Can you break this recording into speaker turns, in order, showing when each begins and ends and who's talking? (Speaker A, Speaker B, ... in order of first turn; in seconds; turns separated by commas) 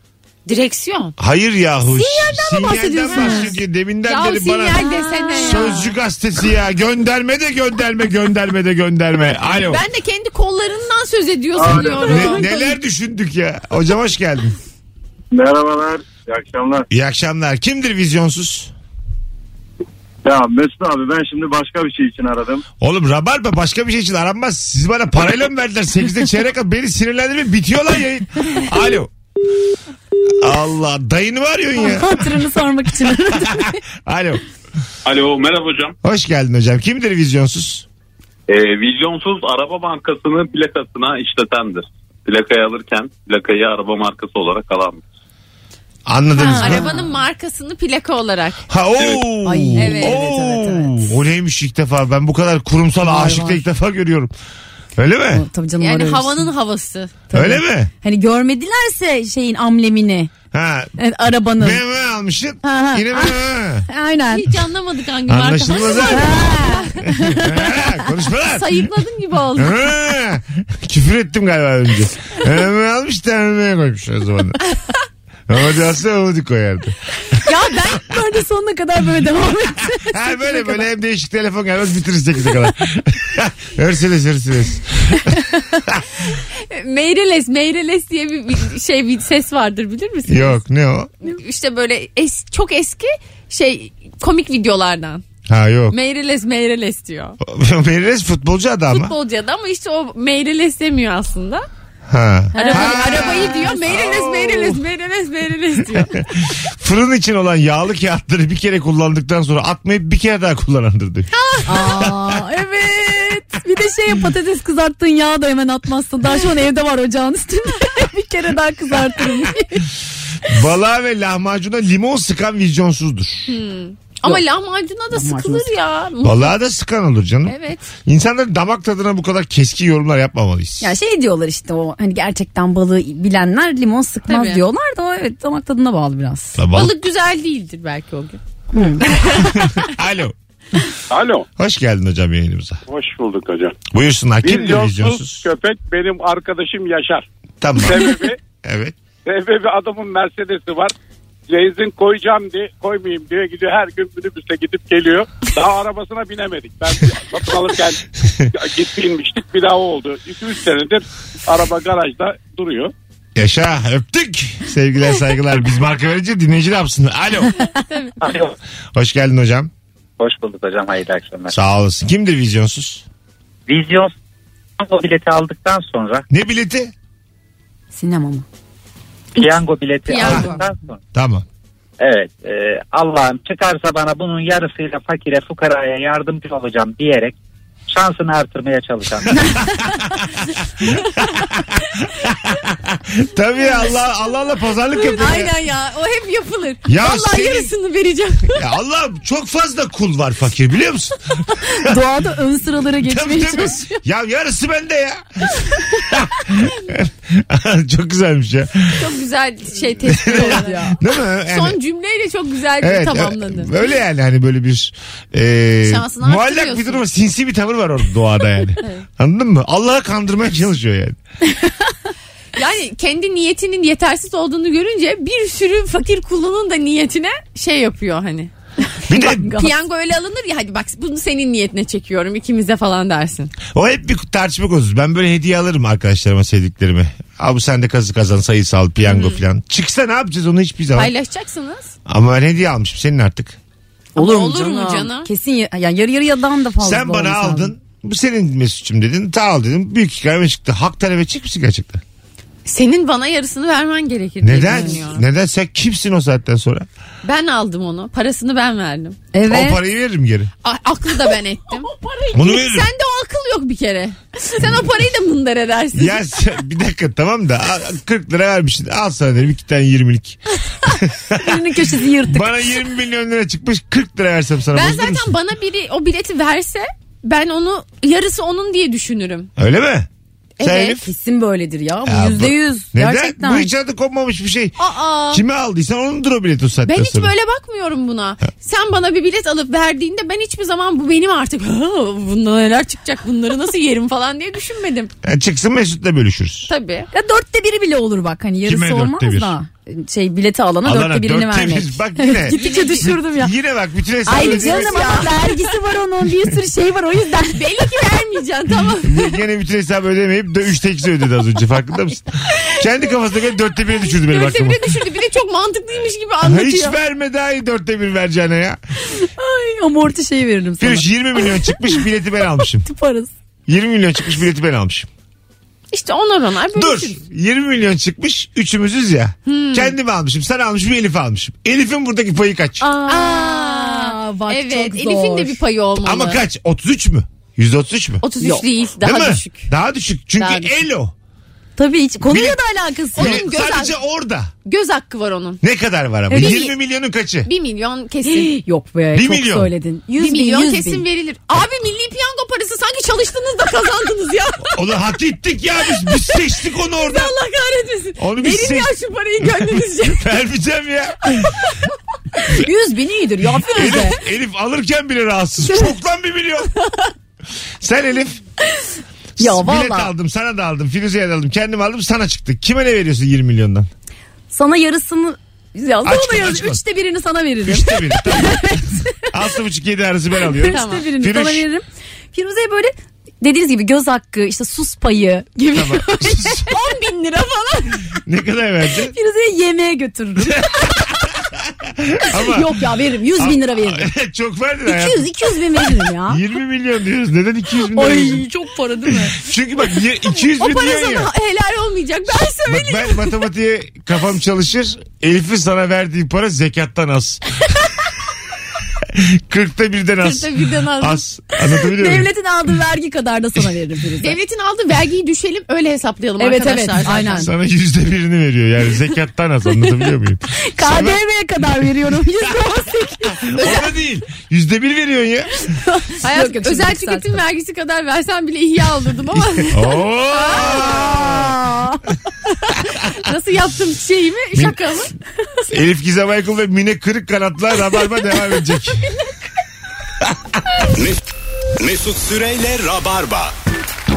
Speaker A: 0.5-1.1, Speaker B: 1.2-9.8, Speaker C: 1.9-3.6, Speaker A: 3.1-3.5, Speaker A: 4.0-5.9, Speaker C: 4.8-5.7, Speaker A: 9.7-12.7, Speaker D: 11.6-12.3, Speaker B: 11.7-14.6, Speaker D: 15.3-16.8, Speaker B: 16.9-18.7, Speaker D: 20.2-22.6, Speaker B: 22.8-29.1, Speaker B: 30.3-34.4, Speaker C: 31.8-33.8, Speaker E: 35.0-35.9, Speaker B: 36.0-37.9, Speaker E: 38.5-45.0, Speaker B: 46.0-46.9, Speaker C: 46.4-47.1, Speaker A: 46.6-48.6, Speaker B: 48.7-54.3, Speaker C: 49.4-51.1, Speaker A: 49.8-50.2, Speaker C: 53.0-53.6, Speaker B: 55.0-55.4, Speaker C: 55.3-56.5, Speaker A: 55.8-57.2, Speaker C: 57.3-60.3, Speaker B: 57.3-57.9, Speaker B: 60.5-60.9, Speaker C: 61.0-61.8, Speaker B: 61.6-63.9, Speaker C: 62.6-64.5, Speaker A: 64.3-67.1, Speaker B: 65.3-66.5, Speaker C: 66.1-67.9, Speaker B: 67.1-68.9, Speaker A: 68.5-70.0, Speaker B: 69.5-74.6, Speaker B: 75.5-77.0, Speaker A: 77.4-78.0, Speaker C: 77.5-80.8, Speaker B: 80.0-86.0, Speaker A: 86.3-90.6, Speaker B: 90.3-91.1, Speaker A: 91.2-95.2, Speaker B: 95.5-96.0, Speaker A: 95.9-97.4, Speaker B: 97.4-99.1, Speaker A: 98.9-101.7, Speaker B: 102.1-104.8, Speaker C: 102.5-103.8, Speaker A: 102.6-106.2, Speaker B: 106.0-112.4, Speaker A: 111.3-112.1, Speaker C: 111.6-119.9, Speaker B: 120.4-123.6, Speaker A: 123.5-126.5, Speaker C: 125.2-125.7, Speaker B: 126.2-130.9, Speaker A: 127.5-127.9, Speaker C: 130.8-136.6, Speaker A: 134.3-134.6, Speaker B: 136.6-136.9, Speaker A: 136.7-138.4, Speaker C: 138.7-139.1, Speaker A: 139.0-139.7, Speaker B: 139.1-140.3, Speaker F: 141.1-141.5, Speaker B: 141.6-142.8, Speaker F: 142.9-143.8, Speaker B: 143.9-145.4, Speaker F: 144.4-147.2, Speaker B: 147.6-148.9, Speaker F: 147.8-148.4, Speaker F: 149.2-150.9, Speaker F: 151.5-162.9, Speaker B: 163.3-167.6, Speaker A: 167.6-168.2, Speaker G: 168.2-168.5, Speaker B: 168.9-169.7, Speaker G: 170.2-171.5, Speaker B: 171.5-173.0, Speaker G: 173.7-174.1, Speaker G: 174.8-176.2, Speaker B: 176.3-176.9, Speaker C: 177.9-178.4, Speaker G: 179.3-181.0, Speaker A: 180.1-180.6, Speaker B: 180.2-180.5, Speaker B: 181.1-181.4, Speaker G: 182.0-187.3, Speaker G: 187.9-189.5, Speaker B: 190.8-195.5, Speaker C: 194.9-195.2, Speaker A: 195.2-198.7, Speaker B: 196.9-197.7, Speaker B: 198.5-202.0, Speaker C: 201.7-204.0, Speaker B: 203.0-209.1, Speaker A: 208.9-210.9, Speaker B: 210.1-211.8, Speaker C: 210.3-211.0, Speaker A: 211.5-213.9, Speaker B: 212.8-221.2, Speaker A: 215.8-217.0, Speaker C: 221.6-221.8, Speaker A: 222.5-228.5, Speaker C: 229.0-229.7, Speaker B: 229.1-229.6, Speaker A: 229.4-233.5, Speaker B: 233.7-241.1, Speaker A: 239.1-239.4, Speaker A: 240.9-241.9, Speaker B: 242.1-243.6, Speaker A: 244.1-245.3, Speaker C: 244.2-247.7, Speaker B: 246.8-252.0, Speaker A: 252.6-255.2, Speaker B: 254.4-256.9, Speaker C: 254.7-255.0, Speaker A: 257.2-259.2, Speaker C: 259.3-259.8, Speaker B: 259.4-260.5, Speaker A: 260.6-266.2, Speaker B: 262.3-262.9, Speaker B: 265.9-270.4, Speaker B: 271.0-275.3, Speaker C: 271.3-272.6, Speaker A: 274.7-279.5, Speaker B: 279.6-280.1, Speaker A: 280.6-281.1, Speaker B: 280.6-281.0, Speaker C: 281.0-283.7, Speaker B: 282.1-284.8, Speaker A: 284.8-285.4, Speaker B: 285.3-287.3, Speaker A: 286.8-295.1, Speaker B: 295.2-296.7, Speaker A: 296.7-297.1, Speaker C: 297.1-303.5, Speaker B: 298.6-299.6, Speaker B: 300.8-305.4, Speaker A: 302.5-303.2, Speaker C: 304.2-307.7, Speaker A: 304.3-305.6, Speaker A: 307.4-309.4, Speaker B: 309.0-314.9, Speaker A: 314.0-317.0, Speaker B: 316.4-318.8, Speaker C: 319.1-321.8, Speaker B: 320.8-322.9, Speaker C: 322.8-323.3, Speaker B: 323.7-325.1, Speaker A: 325.9-327.2, Speaker B: 326.7-332.9, Speaker A: 329.4-329.9, Speaker C: 332.8-335.6, Speaker A: 333.0-336.4, Speaker B: 336.0-338.2, Speaker A: 338.2-339.7, Speaker B: 339.0-341.1, Speaker A: 340.4-340.8, Speaker C: 341.8-343.4, Speaker B: 342.2-342.6, Speaker A: 343.1-344.0, Speaker B: 343.1-344.5, Speaker A: 344.6-345.6, Speaker B: 345.6-347.5, Speaker C: 346.3-346.7, Speaker A: 346.3-346.8, Speaker A: 347.4-348.5, Speaker C: 348.2-351.0, Speaker B: 349.1-349.7, Speaker A: 350.2-354.8, Speaker B: 354.7-357.3, Speaker A: 355.9-360.3, Speaker B: 358.2-361.6, Speaker C: 362.4-364.2, Speaker B: 363.7-366.7, Speaker B: 367.8-368.4, Speaker B: 369.4-373.9, Speaker C: 369.4-370.1, Speaker C: 374.5-379.3, Speaker B: 376.0-376.8, Speaker B: 377.6-378.7, Speaker B: 379.3-381.6, Speaker C: 380.6-386.7, Speaker A: 380.7-381.1, Speaker B: 385.7-386.7, Speaker A: 386.6-388.1, Speaker B: 388.2-389.1, Speaker C: 389.1-391.0, Speaker B: 390.4-392.8, Speaker C: 392.3-394.1, Speaker B: 393.4-398.4, Speaker C: 394.9-396.4, Speaker C: 397.9-399.4, Speaker B: 399.3-401.3, Speaker A: 400.5-403.3, Speaker B: 402.6-407.4, Speaker B: 409.0-412.3, Speaker A: 410.2-411.2, Speaker C: 411.7-414.4, Speaker A: 414.2-417.5, Speaker C: 416.4-417.5, Speaker B: 417.3-421.2, Speaker C: 420.5-423.6, Speaker B: 422.4-422.7, Speaker B: 423.3-425.5, Speaker A: 423.6-423.8, Speaker C: 425.6-427.4, Speaker A: 426.2-429.8, Speaker B: 429.7-431.5, Speaker A: 430.3-431.1, Speaker C: 430.6-432.0, Speaker A: 432.8-435.1, Speaker B: 435.7-439.1, Speaker H: 440.9-441.2, Speaker H: 441.8-443.5